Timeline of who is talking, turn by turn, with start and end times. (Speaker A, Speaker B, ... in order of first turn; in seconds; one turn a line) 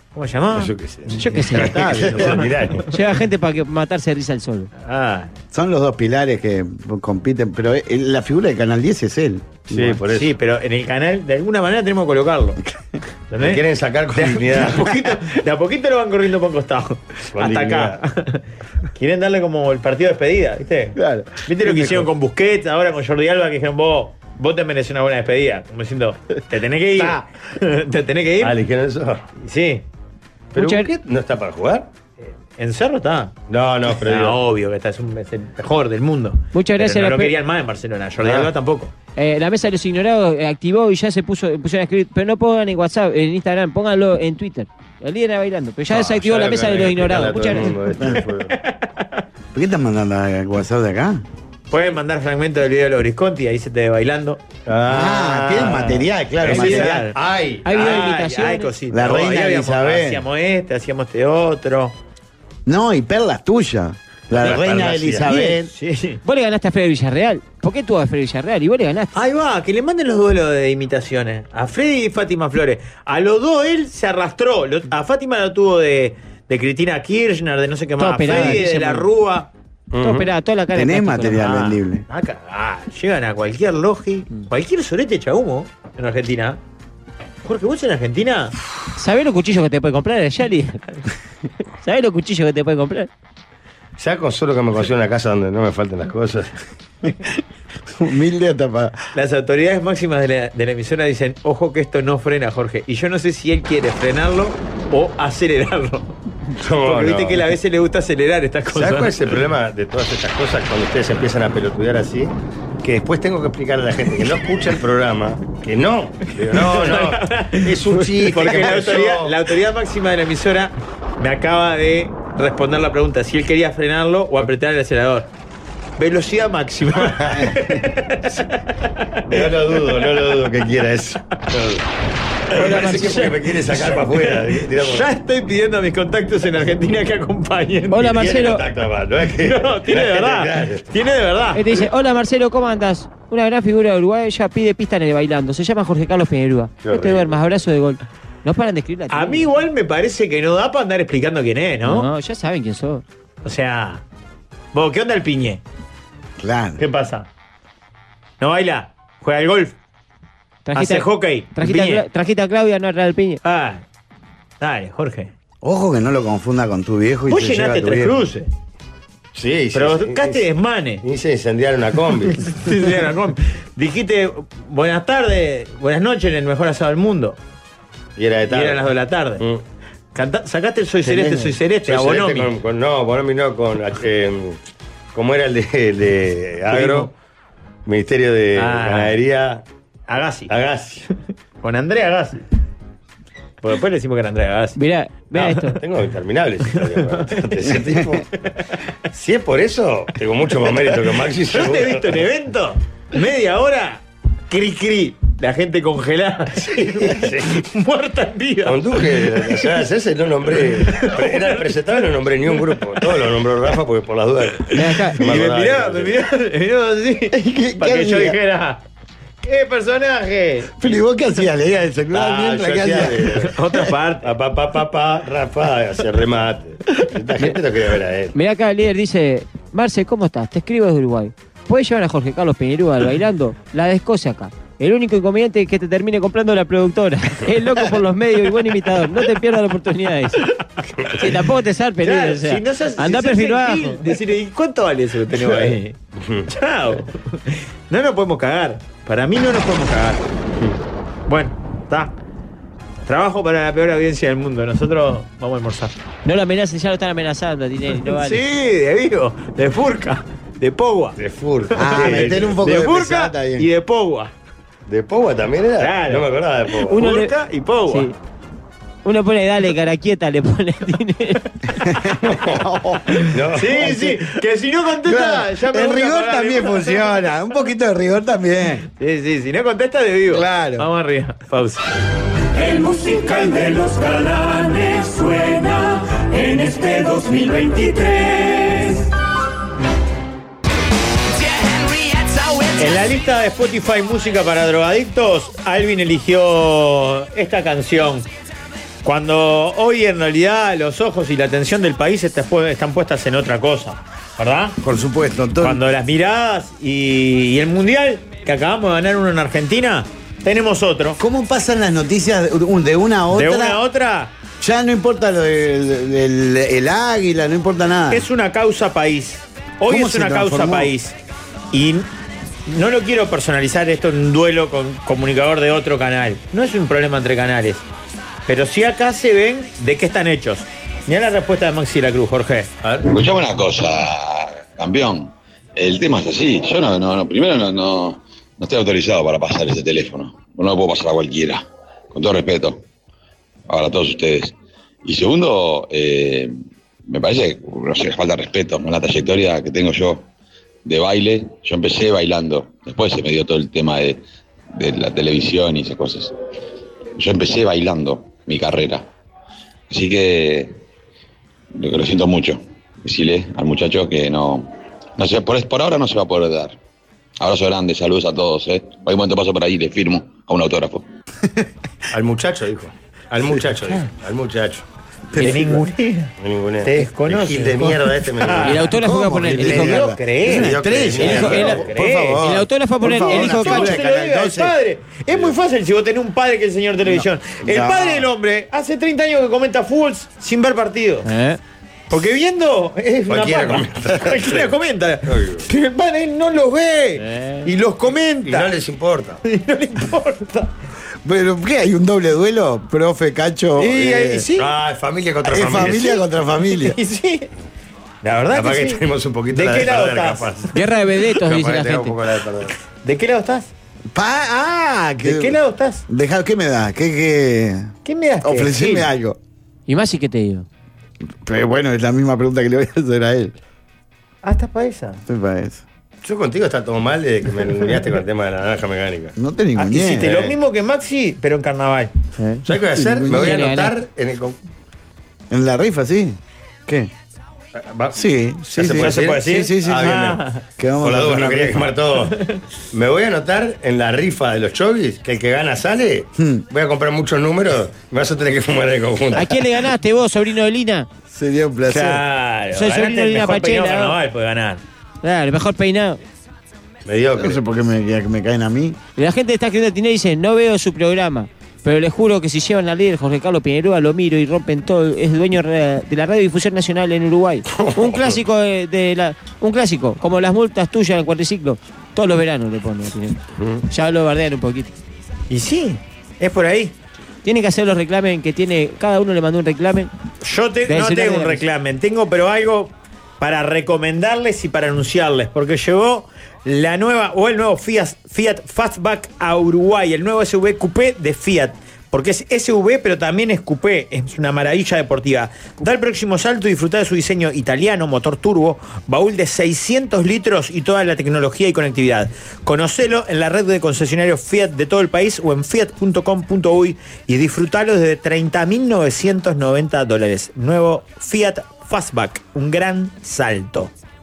Speaker A: 0.1-2.9
Speaker B: 0.5-2.9
Speaker C: 1.1-2.1
Speaker C: 2.9-4.7
Speaker A: 4.8-5.3
Speaker D: 5.5-9.8
Speaker B: 9.7-10.3
Speaker A: 10.1-12.6
Speaker A: 13.3-13.6
Speaker B: 13.4-14.8
Speaker A: 14.1-18.4
Speaker B: 17.3-18.0
Speaker A: 18.9-28.6
Speaker D: 21.0-22.1
Speaker B: 28.4-29.2
Speaker A: 29.4-29.8
Speaker C: 30.6-30.9
Speaker B: 30.6-31.9
Speaker A: 32.2-33.3
Speaker B: 33.5-34.4
Speaker A: 34.0-38.9
Speaker C: 36.5-37.4
Speaker B: 38.2-38.5
Speaker C: 39.2-47.7
Speaker B: 45.9-48.5
Speaker A: 48.5-49.2
Speaker D: 49.5-51.2
Speaker A: 51.7-54.4
Speaker B: 54.7-58.0
Speaker D: 54.9-57.0
Speaker A: 55.5-62.0
Speaker C: 57.6-58.7
Speaker D: 58.9-60.2
Speaker D: 62.7-65.7
Speaker B: 64.3-65.5
Speaker A: 65.6-66.2
Speaker C: 66.2-69.1
Speaker A: 69.1-79.5
Speaker C: 78.0-79.1
Speaker B: 79.9-80.3
Speaker C: 80.0-81.6
Speaker D: 80.7-82.0
Speaker A: 81.3-86.6
Speaker A: 87.4-88.5
Speaker C: 89.0-90.8
Speaker C: 91.8-93.1
Speaker B: 94.0-96.5
Speaker D: 98.0-99.0
Speaker A: 99.1-106.1
Speaker B: 106.6-107.4
Speaker A: 106.8-109.2
Speaker B: 108.7-119.3
Speaker A: 116.5-125.3
Speaker A: 126.0-129.5
Speaker B: 127.1-127.5
Speaker B: 129.3-131.8
Speaker B: 132.5-135.1
Speaker A: 132.6-138.4
Speaker C: 132.6-133.3
Speaker C: 137.9-138.6
Speaker B: 138.1-141.0
Speaker A: 139.4-141.6
Speaker C: 141.6-149.5
Speaker B: 146.8-147.4
Speaker A: 149.1-152.1
Speaker C: 151.8-153.0
Speaker A: 153.4-154.0
Speaker A: 154.7-155.6
Speaker D: 156.4-156.8
Speaker A: 156.8-157.3
Speaker A: 158.4-159.8
Speaker C: 160.6-163.4
Speaker A: 160.7-162.1
Speaker A: 163.4-163.8
Speaker A: 164.6-165.3
Speaker D: 165.6-168.1
Speaker A: 167.3-168.5
Speaker B: 169.3-170.4
Speaker A: 169.7-171.0
Speaker B: 171.0-172.4
Speaker A: 172.3-177.4
Speaker B: 178.2-179.6
Speaker A: 178.5-179.4
Speaker A: 180.1-182.5
Speaker D: 181.0-181.6
Speaker B: 181.8-184.6
Speaker B: 185.1-187.1
Speaker A: 186.7-187.1
Speaker B: 187.9-189.6
Speaker A: 188.6-189.2
Speaker A: 190.1-190.5
Speaker B: 190.5-191.0
Speaker A: 191.6-192.4
Speaker A: 193.6-194.8
Speaker C: 194.8-195.8
Speaker B: 195.8-198.3
Speaker B: 199.1-202.2
Speaker A: 201.5-209.7
Speaker B: 206.6-207.6
Speaker B: 208.6-216.2
Speaker A: 210.9-211.7
Speaker A: 214.7-218.8
Speaker C: 214.7-215.2
Speaker D: 217.3-218.4
Speaker A: 219.4-221.0
Speaker D: 220.8-223.3
Speaker B: 222.1-223.6
Speaker A: 223.4-224.3
Speaker B: 224.2-228.3
Speaker C: 228.3-240.5
Speaker C: 241.2-244.1
Speaker A: 242.0-246.0
Speaker B: 246.2-246.5
Speaker A: 246.5-250.2
Speaker A: 251.3-252.2
Speaker A: 253.0-255.9
Speaker C: 256.2-258.4
Speaker A: 258.0-261.2
Speaker B: 261.2-262.6
Speaker A: 261.8-264.3
Speaker D: 261.8-263.7
Speaker B: 264.9-267.0
Speaker A: 265.8-266.3
Speaker C: 266.9-267.3
Speaker A: 266.9-268.1
Speaker C: 267.9-268.1
Speaker C: 269.1-271.4
Speaker D: 271.8-273.2
Speaker B: 272.2-272.7
Speaker A: 273.2-277.3
Speaker B: 273.3-274.1
Speaker D: 273.8-274.2
Speaker D: 275.0-278.9
Speaker A: 279.0-281.9
Speaker D: 280.3-280.9
Speaker E: 282.6-288.9
Speaker A: 292.8-298.3
Speaker A: 299.0-304.8
Speaker D: 304.8-305.8
Speaker A: 305.6-311.2
Speaker D: 311.2-313.8
Speaker A: 313.3-314.3
Speaker D: 314.6-318.3
Speaker A: 318.1-321.2
Speaker D: 319.9-320.9
Speaker A: 321.7-322.1
Speaker A: 322.7-327.8
Speaker A: 328.5-332.7
Speaker B: 332.8-333.1
Speaker F: 333.1-342.8
Speaker F: 343.7-346.5
Speaker F: 347.1-350.2
Speaker F: 350.9-354.2
Speaker F: 354.7-356.3
Speaker F: 357.2-359.1
Speaker F: 359.9-360.8
Speaker F: 361.8-366.8
Speaker F: 367.4-371.1
Speaker B: 372.1-374.9
Speaker D: 375.3-375.8
Speaker A: 375.4-376.3
Speaker B: 376.4-379.0
Speaker A: 376.8-378.8
Speaker C: 378.6-380.1
Speaker D: 378.9-384.7
Speaker A: 379.6-382.4
Speaker B: 379.6-379.9
Speaker B: 380.4-381.9
Speaker C: 381.2-381.8
Speaker C: 382.4-384.0
Speaker A: 383.1-391.3
Speaker D: 387.6-388.3
Speaker C: 391.2-391.6
Speaker A: 392.1-398.7
Speaker B: 393.3-394.7
Speaker B: 395.3-395.7
Speaker C: 397.2-397.7
Speaker B: 398.4-399.4
Speaker A: 399.4-400.7
Speaker D: 401.2-404.5
Speaker A: 403.8-404.7
Speaker B: 404.6-406.2
Speaker D: 405.4-407.0
Speaker A: 406.7-407.5
Speaker A: 408.2-410.5
Speaker B: 408.5-410.8
Speaker C: 410.7-412.1
Speaker B: 411.3-412.7
Speaker A: 413.0-413.7
Speaker D: 414.1-415.6
Speaker A: 415.2-416.1
Speaker D: 416.1-419.4
Speaker A: 418.1-419.1
Speaker C: 419.9-420.7
Speaker D: 421.4-423.5
Speaker A: 424.4-425.2
Speaker D: 425.3-425.8
Speaker B: 426.2-429.3
Speaker D: 429.4-430.3
Speaker A: 429.8-432.1
Speaker B: 430.1-430.6
Speaker C: 432.4-434.0
Speaker B: 432.6-434.6
Speaker D: 435.5-437.1
Speaker B: 437.8-440.4
Speaker D: 438.1-441.9
Speaker A: 438.8-440.6
Speaker B: 441.0-442.4
Speaker B: 442.9-449.7
Speaker D: 446.4-446.6
Speaker C: 449.3-451.1
Speaker D: 451.3-452.2
Speaker A: 451.9-454.8
Speaker C: 452.7-454.2
Speaker C: 455.2-456.2
Speaker B: 457.1-457.6
Speaker D: 457.4-459.0
Speaker C: 459.2-474.9
Speaker B: 467.7-468.4
Speaker B: 473.6-473.8
Speaker A: 475.5-476.9
Speaker C: 477.4-480.1
Speaker A: 480.4-513.9
Speaker C: 480.9-481.6